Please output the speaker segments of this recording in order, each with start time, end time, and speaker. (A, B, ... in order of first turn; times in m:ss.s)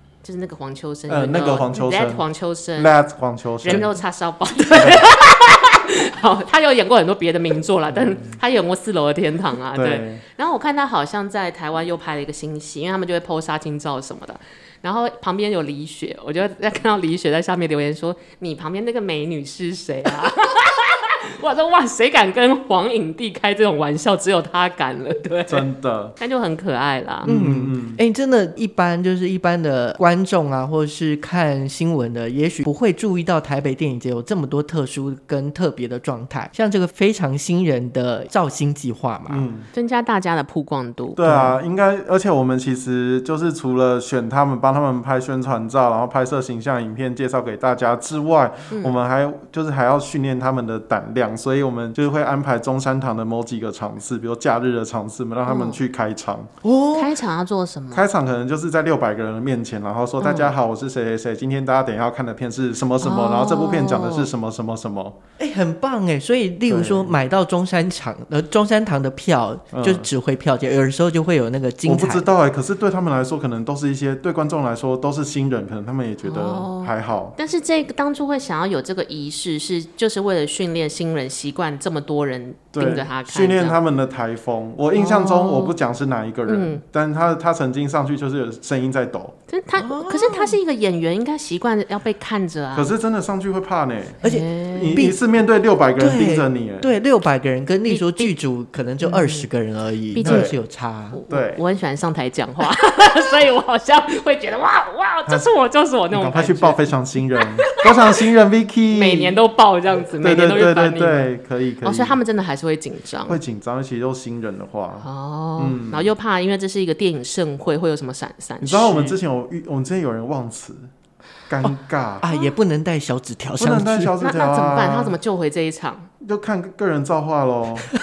0:00.2-0:03.0 A
0:01.1-0:02.2 B
0:02.8-0:03.9 B
0:03.6-0:27.3 A
0:04.8-0:05.0 B
0:09.7-0:10.2 B
0:25.5-0:26.2 B
0:27.2-0:28.0 B
0:27.2-0:39.5 C
0:39.3-0:39.7 B
0:39.7-0:41.5 A
0:41.2-0:56.5 B
0:48.7-0:49.0 A
0:55.5-0:55.8 A
0:56.6-0:57.1 C
0:56.9-0:58.1 A
0:57.9-1:05.2 B
1:00.2-1:00.5 A
1:03.0-1:04.3 A
1:05.4-1:12.3 C
1:06.7-1:07.1 B
1:09.7-1:10.1 B
1:11.8-1:17.4 B
1:16.2-1:23.8 A
1:22.7-1:29.3 B
1:24.9-1:25.8 A
1:26.5-1:26.8 A
1:29.5-1:32.9 A
1:29.8-1:30.6 C
1:32.7-1:36.9 B
1:34.2-1:35.2 C
1:34.2-1:35.0 A
1:36.0-1:41.2 C
1:37.9-1:38.4 A
1:39.0-1:39.5 A
1:40.1-1:40.6 A
1:40.2-1:40.6 B
1:41.1-1:46.9 A
1:41.3-1:41.6 B
1:46.1-1:49.4 B
1:47.6-1:48.1 A
1:48.9-1:53.4 A
1:50.2-1:52.2 B
1:53.3-1:55.1 B
1:55.0-1:59.2 A
1:55.6-1:56.1 B
1:58.6-2:00.9 B
2:01.5-2:02.3 B
2:01.6-2:04.2 C
2:03.6-2:05.2 B
2:04.2-2:06.1 A
2:06.2-2:07.9 B